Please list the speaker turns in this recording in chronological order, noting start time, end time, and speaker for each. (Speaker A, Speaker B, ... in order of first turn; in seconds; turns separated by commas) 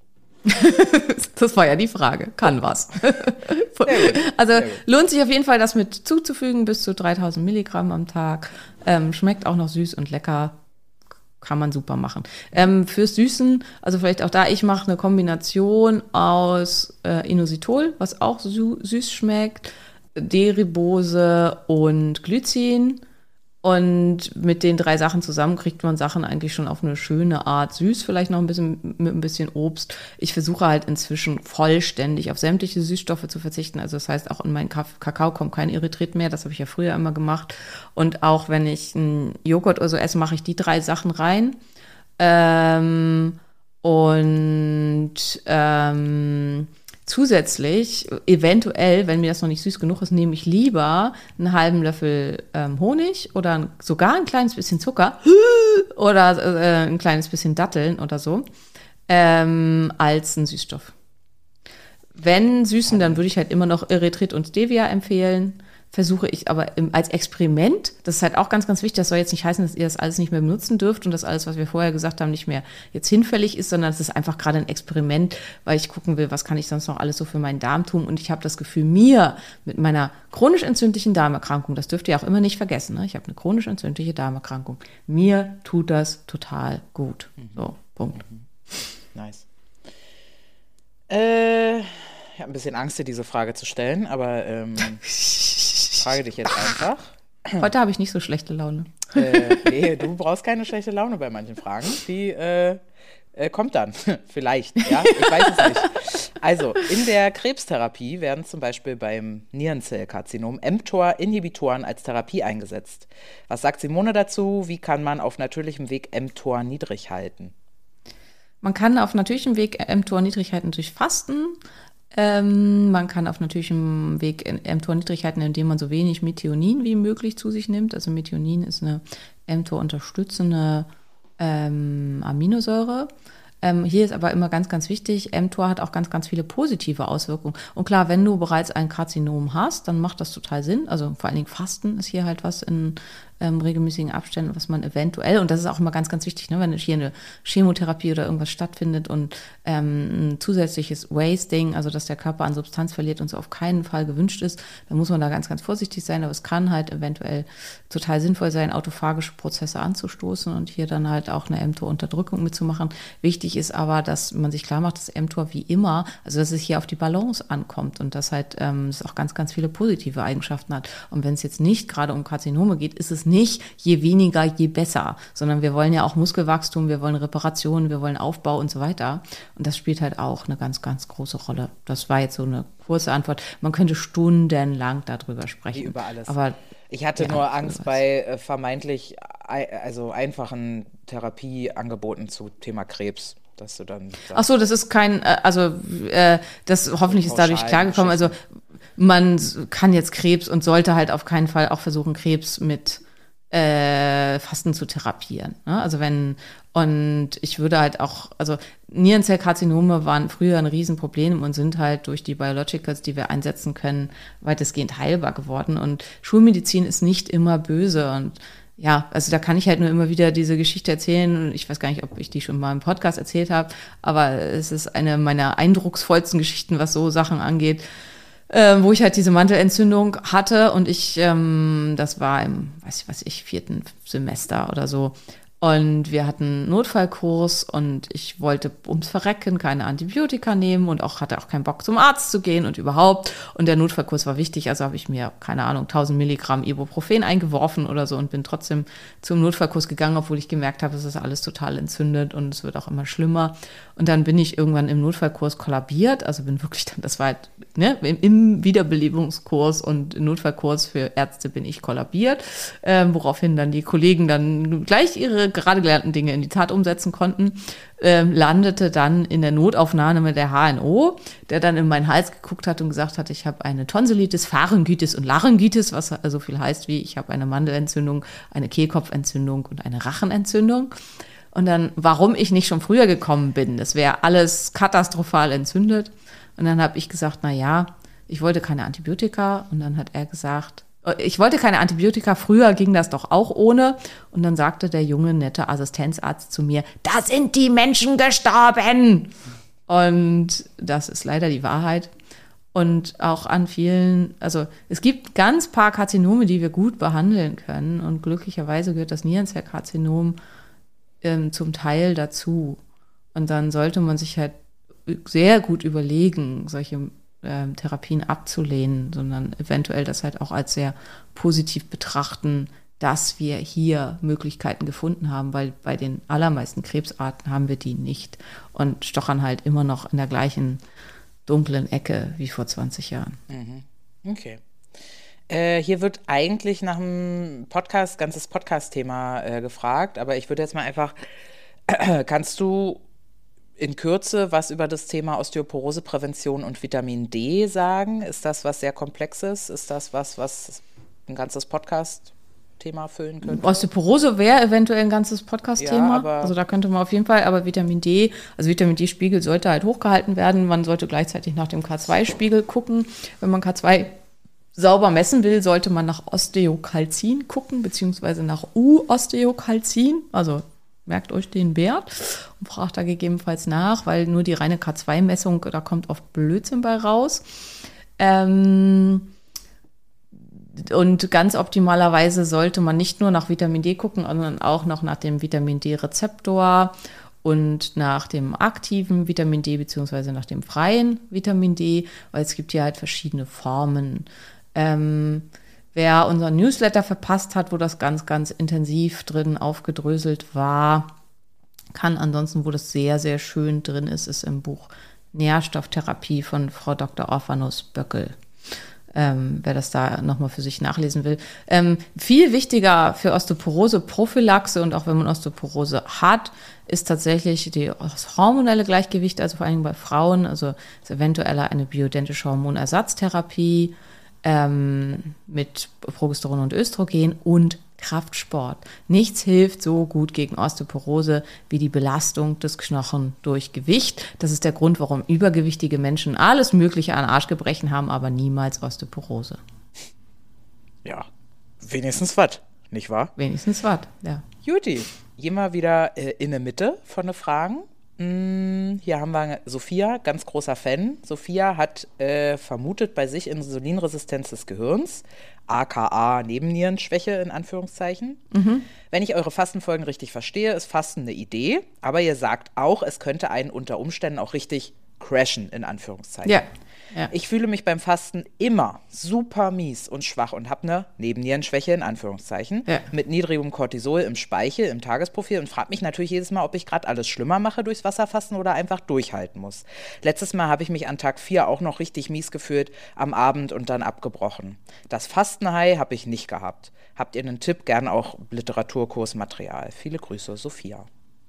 Speaker A: 0.4-10.6, Speaker B: 3.9-4.8, Speaker A: 11.4-23.0, Speaker A: 23.6-41.6, Speaker A: 42.2-58.5, Speaker A: 59.1-60.9, Speaker A: 62.1-88.2, Speaker B: 62.9-63.2, Speaker B: 89.1-89.4, Speaker B: 91.1-95.1, Speaker A: 95.2-96.0, Speaker B: 96.0-97.7, Speaker A: 97.6-99.7, Speaker B: 99.1-102.8, Speaker B: 103.3-117.5, Speaker A: 105.0-105.8, Speaker A: 118.6-121.6, Speaker A: 122.1-130.9, Speaker A: 131.4-133.1, Speaker A: 133.6-186.6, Speaker B: 185.7-194.4, Speaker A: 187.2-188.0, Speaker A: 194.3-198.4, Speaker B: 197.1-198.4, Speaker A: 199.0-227.8, Speaker A: 228.5-280.9, Speaker A: 281.5-299.4, Speaker A: 299.9-302.1, Speaker A: 302.7-310.4, Speaker A: 311.2-312.8, Speaker A: 313.4-314.6, Speaker A: 315.1-330.8, Speaker A: 331.4-333.4, Speaker B: 333.5-334.6, Speaker B: 335.5-341.2, Speaker B: 341.9-343.0, Speaker B: 343.8-353.8, Speaker A: 353.4-364.1, Speaker B: 355.8-356.6, Speaker A: 364.8-377.4, Speaker A: 378.2-379.3, Speaker A: 380.4-401.1, Speaker A: 401.9-408.4, Speaker A: 409.1-439.6, Speaker B: 441.8-443.3, Speaker A: 443.4-444.4, Speaker B: 444.6-458.4, Speaker A: 458.5-458.9, Speaker B: 459.1-466.6, Speaker A: 466.4-467.3, Speaker B: 467.3-491.1